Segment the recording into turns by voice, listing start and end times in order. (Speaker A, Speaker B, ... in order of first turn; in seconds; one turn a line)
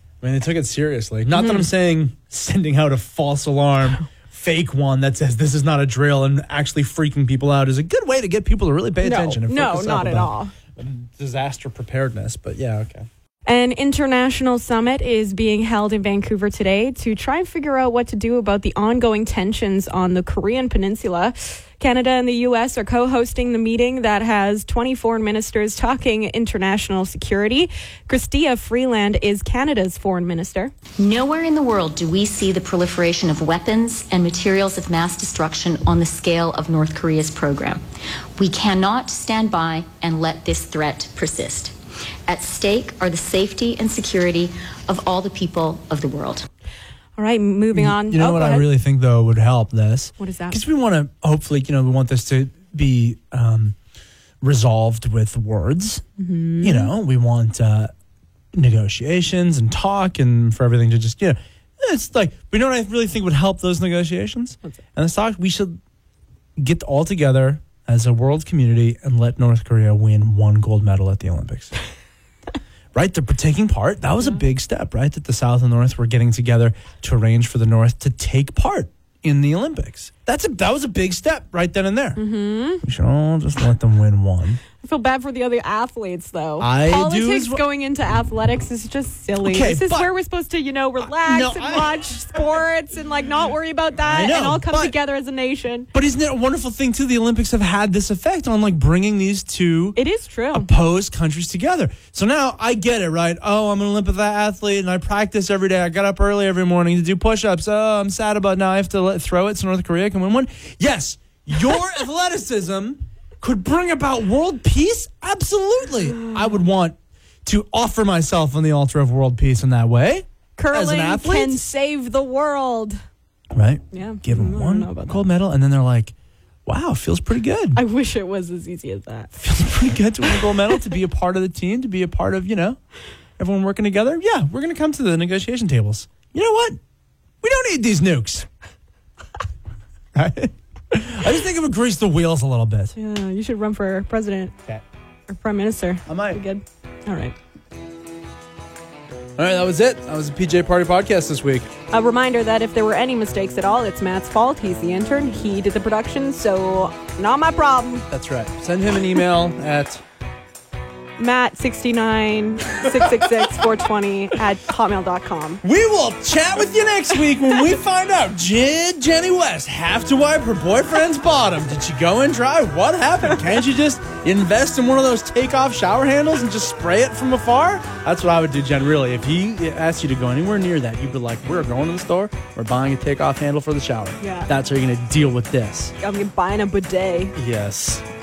Speaker A: 0.2-13.1
Speaker B: 1.4-1.6
Speaker B: 9.0-10.5
Speaker B: 13.4-30.7
Speaker C: 31.0-37.8
Speaker C: 38.4-46.5
Speaker B: 47.2-48.7
Speaker A: 47.7-53.8
Speaker B: 50.2-50.6
Speaker A: 54.4-56.0
Speaker B: 56.2-56.9
Speaker A: 56.6-57.9
Speaker A: 58.5-65.8
Speaker A: 66.6-71.7
Speaker A: 72.9-82.2
Speaker B: 82.2-82.8
Speaker A: 82.8-84.6
Speaker B: 84.8-95.9
Speaker A: 86.6-87.6
Speaker A: 89.4-90.1
Speaker A: 91.0-92.2
Speaker A: 94.0-94.9
Speaker A: 95.9-100.0
Speaker B: 100.0-100.7
Speaker A: 100.5-121.6
Speaker B: 120.6-123.0
Speaker A: 123.5-126.1
Speaker B: 123.9-125.2
Speaker A: 126.7-127.8
Speaker B: 127.7-129.3
Speaker A: 129.4-132.8
Speaker B: 130.2-130.8
Speaker A: 133.4-136.8
Speaker A: 137.4-138.5
Speaker A: 140.1-142.9
Speaker B: 142.9-144.5
Speaker B: 145.3-147.3
Speaker A: 146.1-146.4
Speaker A: 149.4-151.7
Speaker B: 151.9-158.1
Speaker A: 158.1-160.0
Speaker B: 161.2-165.6
Speaker A: 162.8-163.7
Speaker A: 165.6-185.9
Speaker B: 184.2-184.5
Speaker B: 186.0-187.3
Speaker A: 187.3-188.0